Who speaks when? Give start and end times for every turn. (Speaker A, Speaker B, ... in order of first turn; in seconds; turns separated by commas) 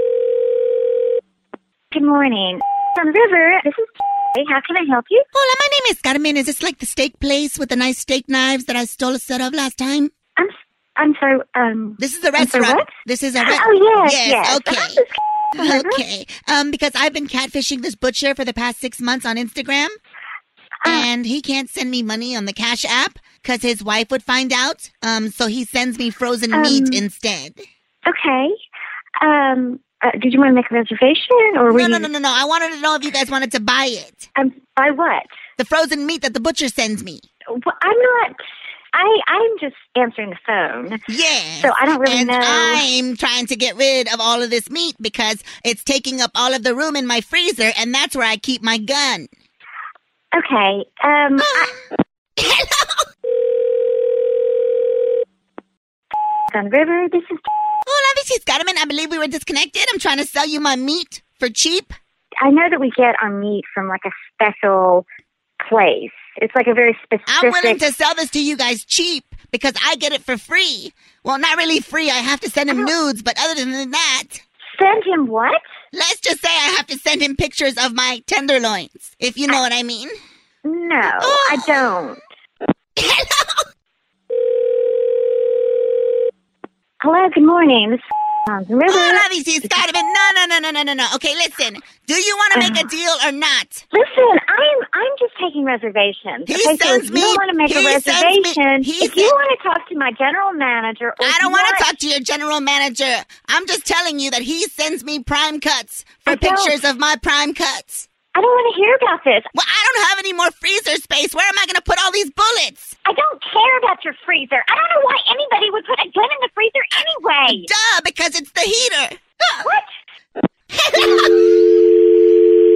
Speaker A: 1.9-5.2, Speaker B: 5.3-10.1, Speaker A: 10.3-16.0, Speaker B: 12.0-15.0, Speaker B: 15.5-19.9, Speaker A: 20.8-21.1, Speaker B: 20.8-27.6, Speaker A: 26.5-27.0, Speaker A: 28.1-28.5, Speaker A: 29.2-32.1, Speaker B: 31.7-34.3, Speaker A: 34.3-35.3, Speaker B: 35.6-37.2, Speaker A: 37.5-38.4, Speaker A: 38.9-41.0, Speaker B: 41.1-49.3, Speaker A: 41.6-42.9, Speaker A: 50.3-51.7, Speaker B: 51.4-51.8, Speaker B: 52.4-53.1, Speaker A: 56.5-57.4, Speaker B: 57.9-61.9, Speaker A: 62.4-65.0, Speaker A: 65.6-67.8, Speaker B: 67.3-74.4, Speaker A: 74.7-75.6, Speaker B: 75.9-80.2, Speaker A: 80.6-82.2, Speaker B: 81.0-82.0, Speaker B: 83.0-83.7, Speaker A: 87.0-89.2, Speaker B: 88.9-93.8, Speaker A: 92.5-92.9, Speaker A: 93.9-101.9, Speaker B: 96.5-99.3, Speaker B: 101.2-108.1, Speaker A: 106.3-106.8, Speaker A: 108.3-109.5, Speaker B: 109.5-112.9, Speaker A: 113.0-117.7, Speaker B: 117.5-119.7, Speaker A: 119.6-119.9, Speaker B: 120.7-121.6